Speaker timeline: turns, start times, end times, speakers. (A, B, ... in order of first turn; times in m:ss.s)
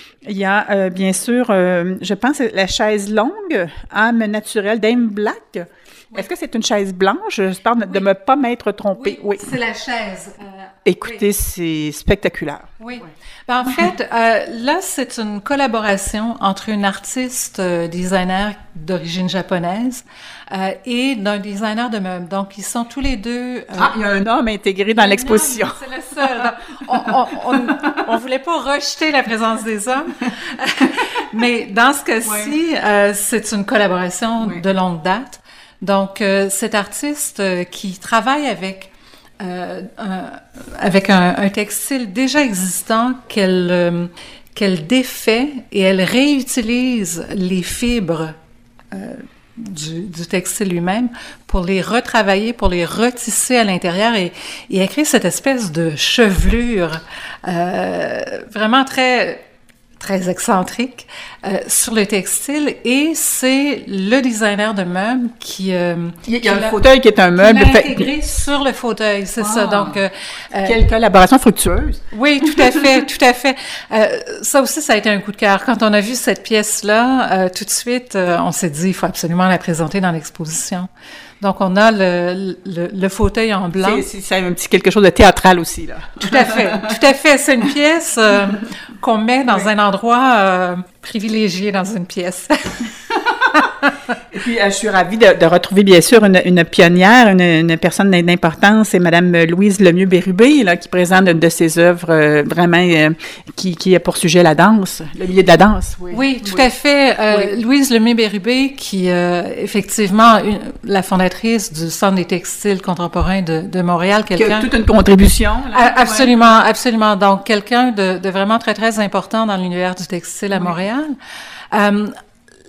0:00.2-0:09.6 A
0:09.0-0:11.2 B
0:10.8-0:12.7 A
0:12.8-0:23.9 B
0:23.8-0:25.8 A
0:24.9-0:48.3 B
0:27.5-0:27.9 A
0:32.2-0:32.5 A
0:48.9-0:59.4 B
1:00.0-1:06.8 B
1:06.2-1:08.1 A
1:07.4-1:10.8 B
1:09.4-1:10.0 A
1:10.6-1:12.9 A
1:12.1-1:20.9 B
1:21.4-1:24.0 B
1:23.8-1:26.9 A
1:26.2-1:32.9 B
1:34.3-1:46.6 A
1:46.1-1:54.7 B
1:54.4-1:56.4 A
1:55.7-2:01.1 B
2:01.7-2:02.1 B